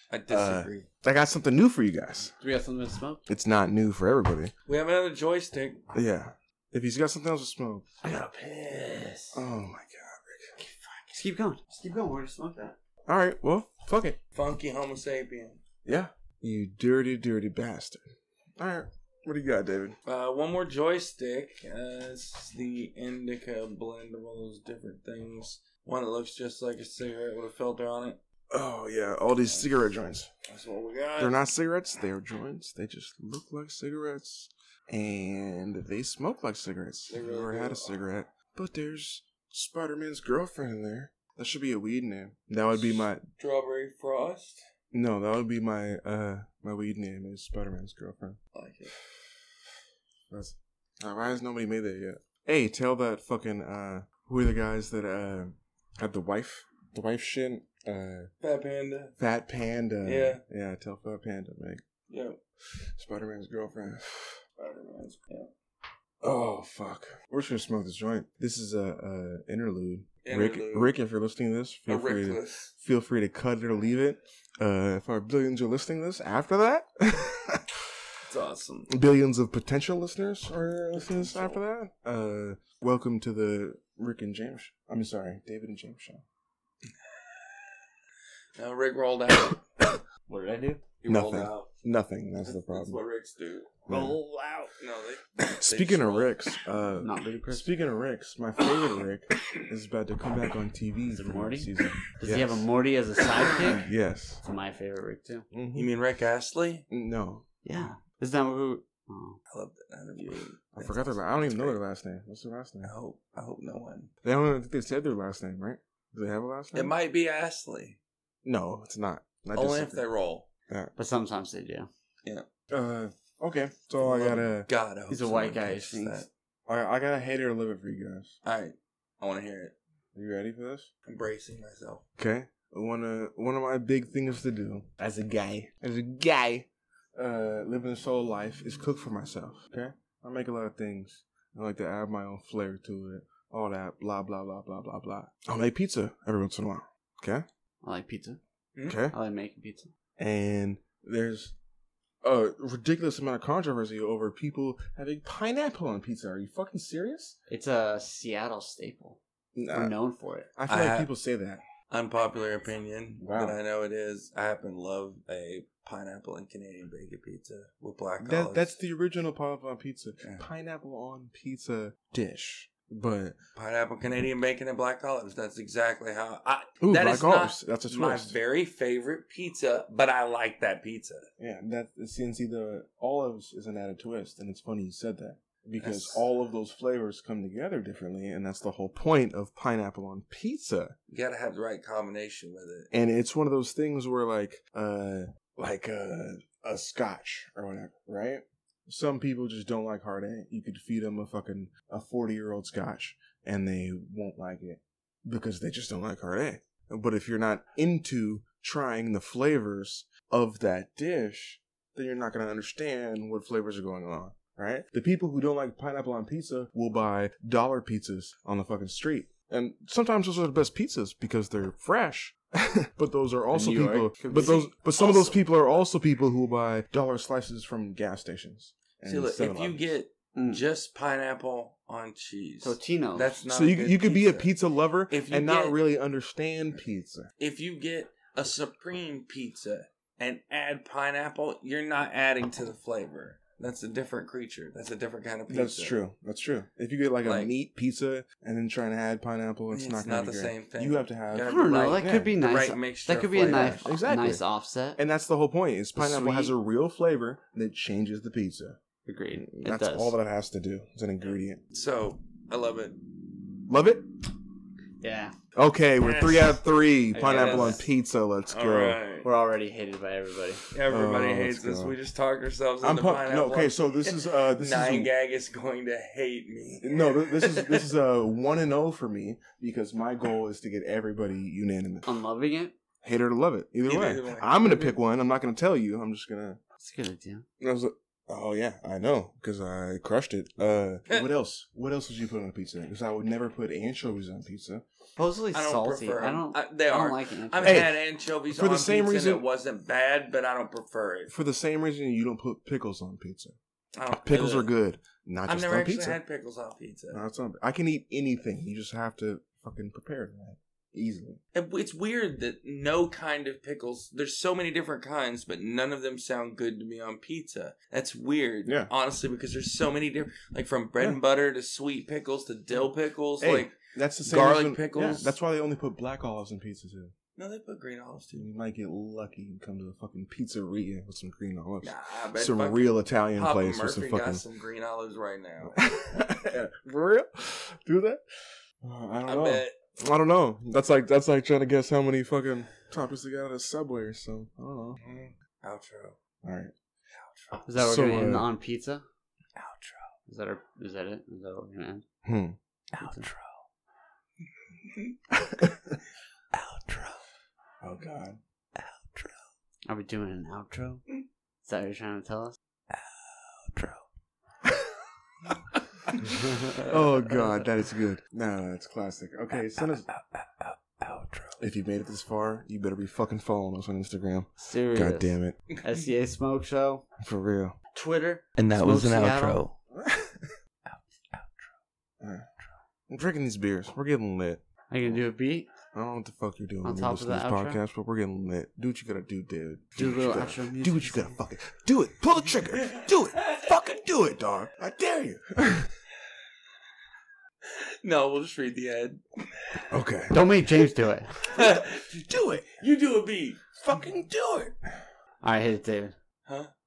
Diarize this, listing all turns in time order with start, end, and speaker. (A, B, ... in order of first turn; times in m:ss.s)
0:00.1-0:00.9 A
0:00.3-0:02.3 B
0:02.4-0:03.2 C
0:03.3-0:04.5 B
0:04.6-0:05.9 A
0:05.9-0:08.0 B
0:08.0-0:09.4 C
0:09.3-0:10.5 B
0:10.6-0:11.1 A
0:11.1-0:12.7 C
0:13.1-0:14.2 B
0:14.3-0:15.6 A
0:15.8-0:18.0 B
0:18.6-0:20.0 B
0:20.0-0:28.2 A
0:28.5-0:30.3 B
0:30.5-0:31.4 A
0:31.2-0:43.2 B
0:37.1-0:38.0 A
0:42.7-0:44.6 A
0:44.9-0:48.4 B
0:48.5-0:49.0 A
0:50.3-0:58.3 B
0:58.4-0:59.1 A
0:59.2-1:01.8 B
1:00.0-1:00.4 A
1:02.1-1:02.4 A
1:03.0-1:04.4 B
1:04.6-1:05.5 A
1:06.2-1:17.9 B
1:10.2-1:11.0 A
1:11.9-1:12.7 A
1:18.2-1:18.9 A
1:18.9-1:26.2 B
1:20.9-1:21.6 A
1:28.6-1:29.6 A
1:29.3-1:30.0 B
1:30.3-1:30.8 C
1:31.0-1:31.7 A
1:31.0-1:33.0 B
1:32.4-1:33.8 A
1:33.9-1:34.2 B
1:33.9-1:34.7 C
1:34.8-1:36.5 A
1:35.6-1:42.6 B
1:37.0-1:37.7 C
1:41.1-1:43.8 C
1:43.5-1:44.4 B
1:44.4-1:45.4 C
1:45.5-1:45.9 B
1:45.7-1:46.8 A
1:46.9-1:47.5 B
1:47.6-1:49.4 C
1:49.5-1:51.8 A
1:50.2-1:52.9 B
1:52.8-1:54.1 A
1:54.2-1:56.9 B
1:56.7-1:58.0 A
1:58.4-2:00.0 B
1:59.5-2:00.5 A
2:01.0-2:01.9 C
2:02.7-2:04.7 B
2:04.0-2:06.3 A
2:05.1-2:06.2 C
2:06.7-2:08.4 B
2:08.4-2:09.7 A
2:10.1-2:10.9 B
2:11.0-2:12.0 A
2:12.2-2:27.4 B
2:27.8-2:28.4 C
2:28.8-2:29.1 B
2:29.1-2:29.9 C
2:30.2-2:31.5 B
2:32.2-2:37.4 B
2:37.5-2:39.2 C
2:39.5-2:39.9 B
2:39.7-2:40.5 C
2:40.6-2:41.6 B
2:40.7-2:41.1 A
2:41.9-2:48.8 A
2:43.2-2:43.6 B
2:48.2-2:53.4 B
2:50.2-2:50.4 A
2:53.6-3:01.2 A
2:56.8-2:58.4 B
3:01.4-3:11.0 B
3:05.8-3:06.2 A
3:11.1-3:12.9 A
3:12.9-3:50.0 B
3:43.5-3:44.6 C
3:44.3-3:45.4 A
3:49.0-3:54.5 A
3:50.3-3:50.6 C
3:52.6-3:53.4 C
3:53.5-3:57.3 B
3:55.1-3:55.8 A
3:57.4-4:06.0 A
4:05.5-4:12.3 B
4:07.2-4:07.5 A
4:09.7-4:13.9 A
4:11.4-4:15.0 C
4:13.4-4:14.4 B
4:15.0-4:18.8 B
4:16.0-4:16.5 C
4:19.0-4:20.2 C
4:19.4-4:21.6 B
4:21.7-4:23.0 A
4:23.7-4:24.1 B
4:25.0-4:25.3 C
4:25.5-4:29.0 B
4:26.0-4:26.6 A
4:27.1-4:27.8 C
4:27.2-4:27.8 A
4:28.5-4:29.3 A
4:29.2-4:30.6 C
4:30.7-4:37.9 A
4:30.8-4:32.0 B
4:32.8-4:35.1 B
4:36.8-4:42.1 B
4:42.0-4:42.7 C
4:43.0-4:46.6 B
4:43.8-4:45.0 A
4:46.8-4:47.4 C
4:47.6-4:54.8 B
4:55.2-4:57.8 C
4:55.5-5:01.3 A
4:57.6-4:59.4 B
5:01.3-5:03.6 B
5:03.9-5:04.7 A
5:04.1-5:06.2 B
5:05.5-5:07.2 A
5:07.1-5:11.4 B
5:11.5-5:25.3 A
5:18.6-5:18.9 B
5:23.4-5:27.1 B
5:27.4-5:28.4 A
5:28.3-5:34.4 B
5:31.8-5:35.8 A
5:35.6-5:38.2 B
5:38.8-5:45.0 B
5:39.2-5:39.7 A
5:45.0-5:46.2 A
5:46.4-5:46.7 B
5:47.1-5:47.6 A
5:47.6-5:49.0 C
5:47.8-5:48.5 B
5:49.6-5:50.1 A
5:50.3-5:52.0 C
5:52.2-5:52.6 B
5:52.9-5:53.5 A
5:53.0-5:53.3 C
5:54.9-5:55.1 A
5:55.3-5:56.0 B
5:56.5-5:57.2 A
5:57.8-5:58.4 B
5:58.8-5:59.3 A
5:59.9-6:01.0 C
6:01.6-6:02.6 C
6:03.6-6:04.0 A
6:06.1-6:07.5 A
6:06.3-6:06.8 C
6:06.4-6:10.1 B
6:10.3-6:11.6 A
6:11.6-6:15.6 B
6:14.6-6:17.0 C
6:17.2-6:17.8 B
6:17.9-6:19.6 C
6:18.6-6:19.7 A
6:19.9-6:20.5 B
6:20.9-6:21.5 A
6:22.2-6:22.5 B
6:23.1-6:25.2 B
6:24.9-6:25.7 C
6:25.9-6:35.9 B
6:26.8-6:27.8 C
6:30.0-6:31.3 C
6:32.7-6:33.8 A
6:37.6-6:39.9 A
6:39.9-6:40.5 B
6:40.3-6:41.3 C
6:41.4-6:43.9 A
6:41.5-6:42.6 B
6:43.8-6:44.7 B
6:45.4-6:46.2 C